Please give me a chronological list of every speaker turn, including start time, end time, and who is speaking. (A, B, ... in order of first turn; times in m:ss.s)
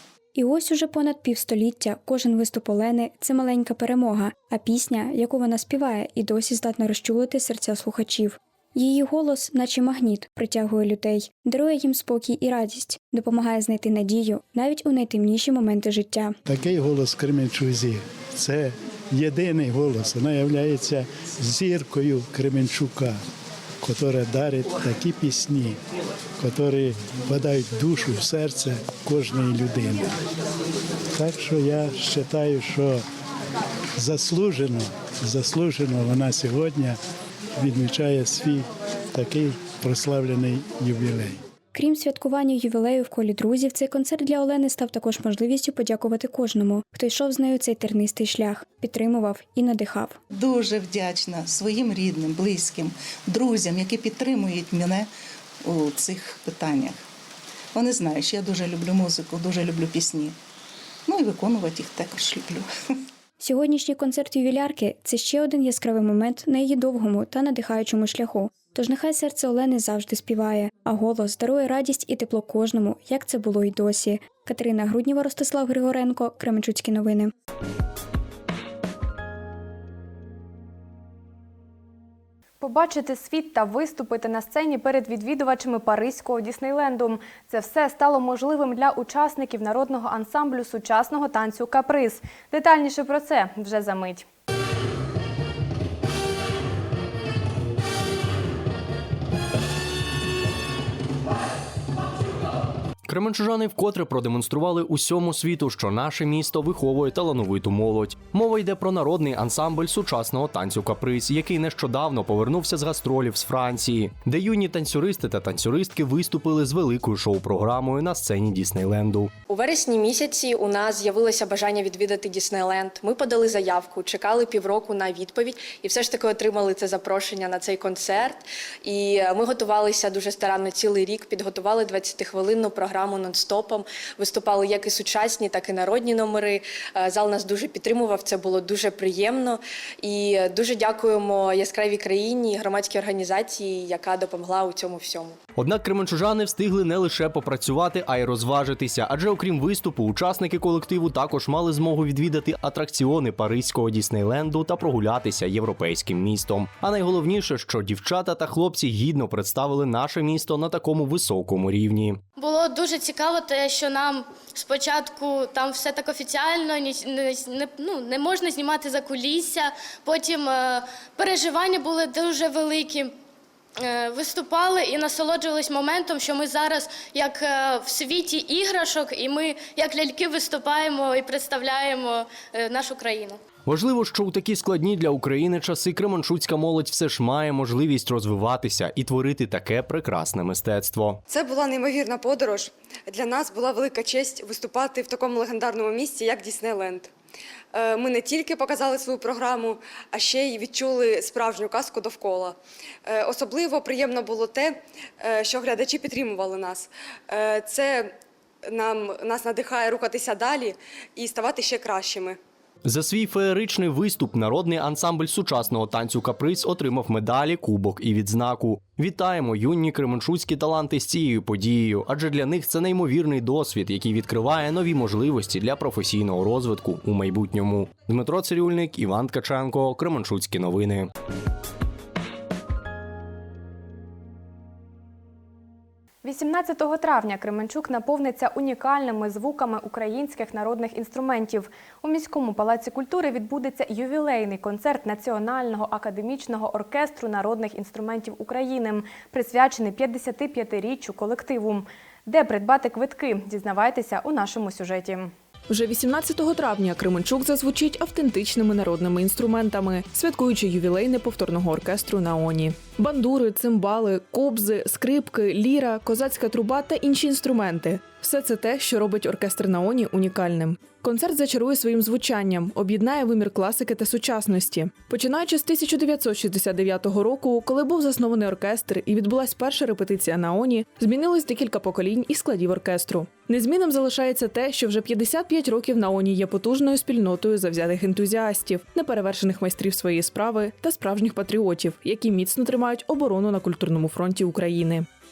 0:00.3-0:16.4 A
0:16.5-0:23.2 B
0:23.8-0:25.8 B
0:26.4-0:30.1 B
0:31.1-0:33.0 B
0:34.0-0:37.0 B
0:37.6-0:41.4 B
0:41.7-0:50.2 A
0:50.3-0:55.1 C
0:55.6-0:57.0 C
0:57.7-1:00.4 C
1:01.0-1:02.7 C
1:03.4-1:17.3 A
1:22.6-1:34.2 D
1:43.1-1:59.3 E
1:59.5-2:25.4 F
2:25.6-2:42.2 E
2:42.4-2:53.1 G
2:53.8-3:03.4 G
3:03.6-3:11.2 E
3:11.3-3:17.1 H
3:17.7-3:28.1 H
3:28.7-3:32.4 H
3:32.8-3:51.1 E
3:56.2-4:15.3 D
4:15.7-4:55.0 I